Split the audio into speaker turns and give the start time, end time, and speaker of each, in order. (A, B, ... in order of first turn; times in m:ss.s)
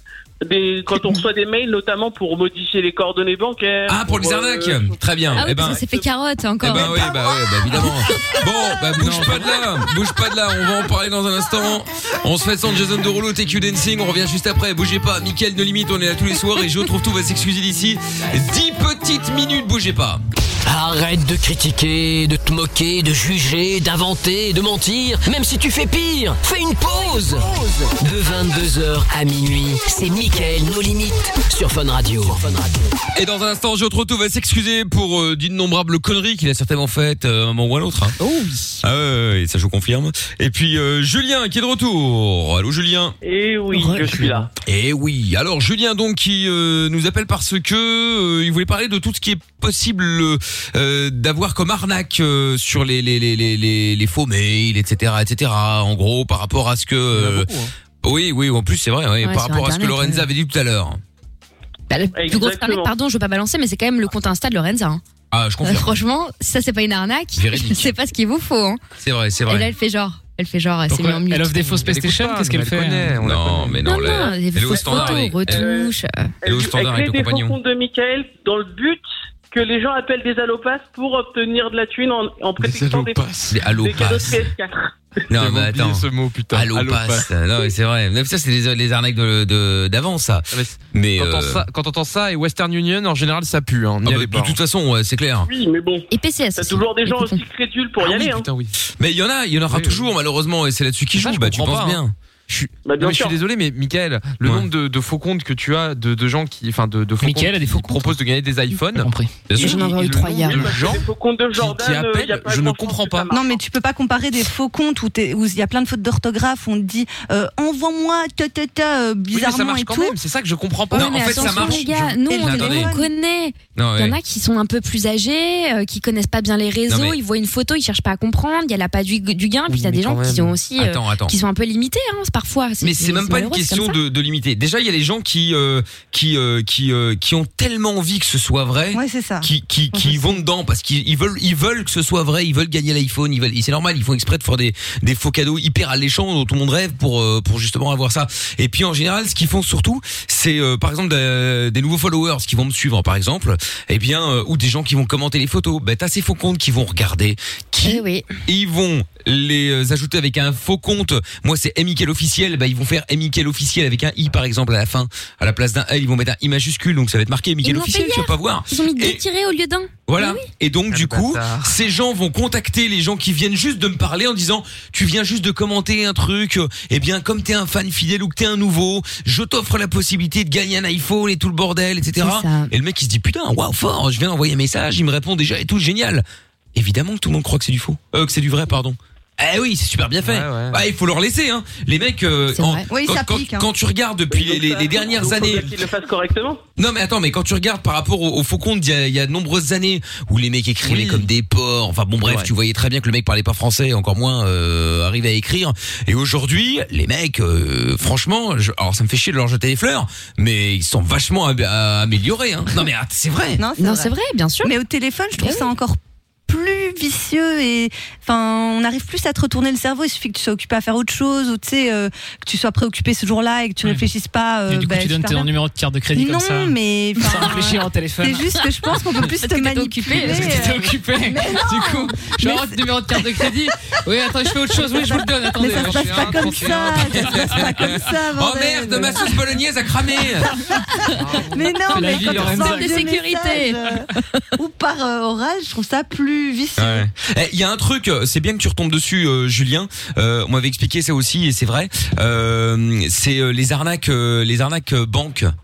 0:00.4-0:06.0 A
0:03.9-0:05.8 B
0:05.3-0:07.1 C
0:06.6-0:20.2 B
0:07.7-0:08.4 C
0:09.1-0:09.4 D
0:20.6-0:32.8 E
0:33.1-0:38.2 B
0:38.2-0:38.8 C
0:38.8-0:43.2 B
0:43.2-0:44.5 A
0:43.7-0:44.4 C
0:44.6-0:57.5 B
0:57.1-0:57.7 D
0:58.0-1:01.0 B
0:59.2-1:00.2 C
1:01.9-1:05.0 C
1:02.1-1:02.9 A
1:05.3-1:05.9 B
1:05.6-1:08.8 C
1:07.4-1:07.9 B
1:09.0-1:09.7 B
1:09.5-1:11.7 C
1:10.9-1:13.2 F
1:11.7-1:13.8 D
1:13.2-1:15.7 B
1:13.8-1:16.3 C
1:14.7-1:15.9 A
1:16.4-1:17.6 B
1:16.4-1:25.0 A
1:22.6-1:23.6 D
1:23.5-1:24.5 B
1:25.3-1:31.6 B
1:25.3-1:27.3 D
1:30.5-1:34.6 D
1:34.0-1:35.5 B
1:35.4-1:38.5 A
1:36.1-1:37.4 C
1:38.0-1:38.7 D
1:39.0-1:42.1 B
1:39.7-1:40.1 D
1:41.1-1:53.3 D
1:42.8-1:43.4 A
1:47.2-1:48.2 F
1:48.7-1:49.3 F
1:49.5-1:50.7 B
1:49.6-1:50.7 C
1:50.4-1:53.6 A
1:53.3-2:00.2 G
1:59.3-2:01.8 D
2:00.9-2:02.9 B
2:00.9-2:14.0 C
2:02.3-2:03.1 G
2:03.8-2:04.2 B
2:06.9-2:07.2 B
2:09.7-2:10.6 D
2:10.8-2:11.4 B
2:12.8-2:49.2 B
2:18.9-2:20.4 G
2:37.8-2:38.3 C
2:47.6-2:50.4 C
2:50.1-3:15.7 B
2:50.9-2:51.8 D
3:02.2-3:02.7 C
3:10.2-3:10.8 D
3:12.5-3:12.8 C
3:12.9-3:13.7 G
3:14.3-3:16.6 A
3:16.8-3:33.6 B
3:20.8-3:21.2 D
3:22.2-3:22.5 D
3:33.6-3:34.1 G
3:33.8-3:34.7 C
3:34.6-3:45.5 G
3:35.4-3:35.7 C
3:44.7-3:48.5 F
3:46.1-3:53.5 G
3:49.2-3:50.6 C
3:50.0-3:56.7 F
3:54.7-3:59.4 G
3:55.6-3:57.6 D
3:57.4-3:57.7 B
3:58.3-4:00.5 B
4:00.6-4:07.0 G
4:01.2-4:02.6 D
4:01.9-4:03.1 F
4:02.3-4:03.8 C
4:06.8-4:15.5 B